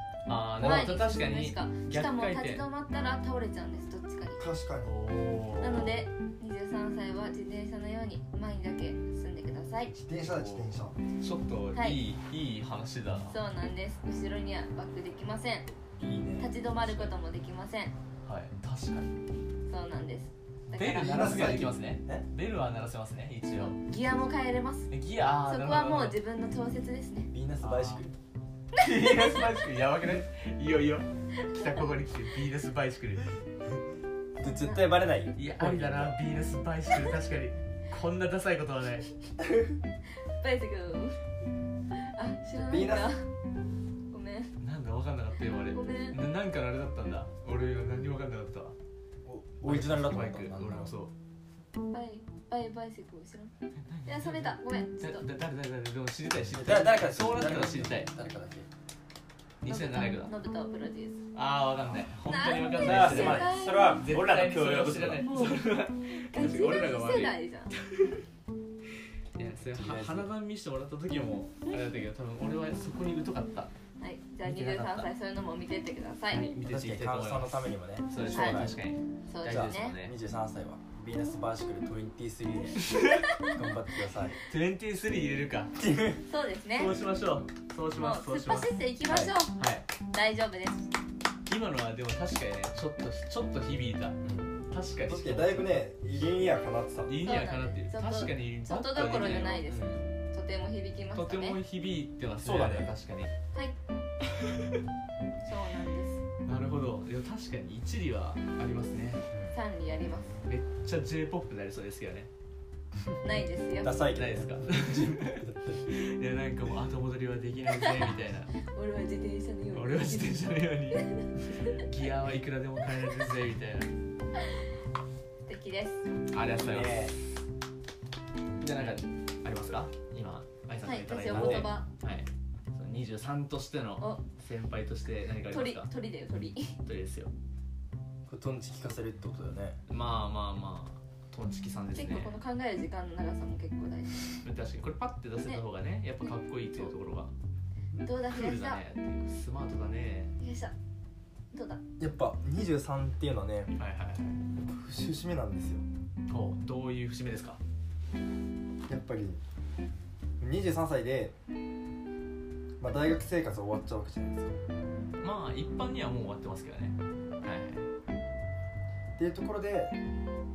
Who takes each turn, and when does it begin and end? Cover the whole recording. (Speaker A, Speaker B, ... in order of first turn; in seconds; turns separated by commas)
Speaker A: 0.3-2.6, Speaker B: 0.6-4.5, Speaker C: 4.4-4.9, Speaker A: 4.8-6.0, Speaker B: 5.6-9.9, Speaker C: 9.9-10.9, Speaker A: 10.2-13.3, Speaker B: 11.7-12.0, Speaker B: 13.3-15.7, Speaker C: 16.0-16.5, Speaker B: 16.4-17.9, Speaker A: 16.7-17.1, Speaker A: 18.2-19.2, Speaker B: 19.7-21.4, Speaker C: 20.7-22.2, Speaker A: 20.7-23.8, Speaker B: 23.7-24.9, Speaker A: 24.9-26.2, Speaker B: 25.4-27.3, Speaker C: 27.3-28.1, Speaker A: 27.6-28.1, Speaker A: 28.8-33.3, Speaker C: 34.4-36.2, Speaker B: 34.4-34.8, Speaker A: 35.4-39.1, Speaker B: 40.3-41.2, Speaker B: 41.9-43.3, Speaker C: 42.5-43.1, Speaker B: 44.1-44.5, Speaker A: 44.6-48.7, Speaker B: 45.7-46.2, Speaker C: 49.2-50.9, Speaker A: 49.6-51.1, Speaker B: 51.9-53.5, Speaker A: 53.9-58.1, Speaker B: 54.0-55.2, Speaker C: 56.5-58.7, Speaker A: 59.6-60.3, Speaker B: 59.6-61.2, Speaker A: 61.3-67.4, Speaker B: 62.2-64.0, Speaker C: 62.7-65.3, Speaker B: 65.3-67.7, Speaker A: 69.3-73.7, Speaker C: 69.6-70.3, Speaker B: 74.0-76.5, Speaker A: 74.4-75.1, Speaker A: 76.3-80.1, Speaker C: 76.6-78.8, Speaker B: 78.3-78.6, Speaker B: 79.3-80.0, Speaker C: 79.5-84.4, Speaker A: 82.8-83.3, Speaker A: 84.3-85.7, Speaker C: 85.8-86.2, Speaker B: 86.2-87.0, Speaker A: 86.8-88.7, Speaker B: 87.9-90.9, Speaker C: 89.1-89.3, Speaker A: 89.5-89.9, Speaker A: 91.5-94.2, Speaker C: 94.2-97.2, Speaker A: 94.7-95.7, Speaker A: 97.0-99.7, Speaker B: 97.2-101.6, Speaker C: 99.7-100.0, Speaker A: 101.1-103.3, Speaker C: 102.4-103.0, Speaker A: 104.4-104.7, Speaker B: 105.4-106.2, Speaker A: 106.4-109.2, Speaker B: 109.5-110.4, Speaker A: 110.4-112.3, Speaker B: 113.2-114.1, Speaker C: 113.8-115.8, Speaker A: 114.1-118.5, Speaker B: 118.6-121.5, Speaker A: 119.7-123.9, Speaker B: 125.5-126.1, Speaker A: 126.3-127.1, Speaker C: 126.6-127.2, Speaker A: 128.6-135.9, Speaker B: 130.8-131.9, Speaker C: 131.3-131.7, Speaker B: 135.4-136.8, Speaker A: 136.8-137.3, Speaker C: 138.3-139.8, Speaker A: 139.9-142.4, Speaker B: 141.9-144.4, Speaker A: 144.4-147.3, Speaker B: 146.2-146.9, Speaker B: 148.0-148.8, Speaker A: 148.2-150.3, Speaker B: 150.4-150.7, Speaker B: 151.5-151.8, Speaker C: 152.0-153.7, Speaker A: 153.8-154.4, Speaker C: 154.6-155.8, Speaker A: 156.3-157.6, Speaker C: 158.9-159.4, Speaker C: 160.4-161.3, Speaker C: 162.8-164.6, Speaker A: 165.2-167.9, Speaker C: 169.2-169.9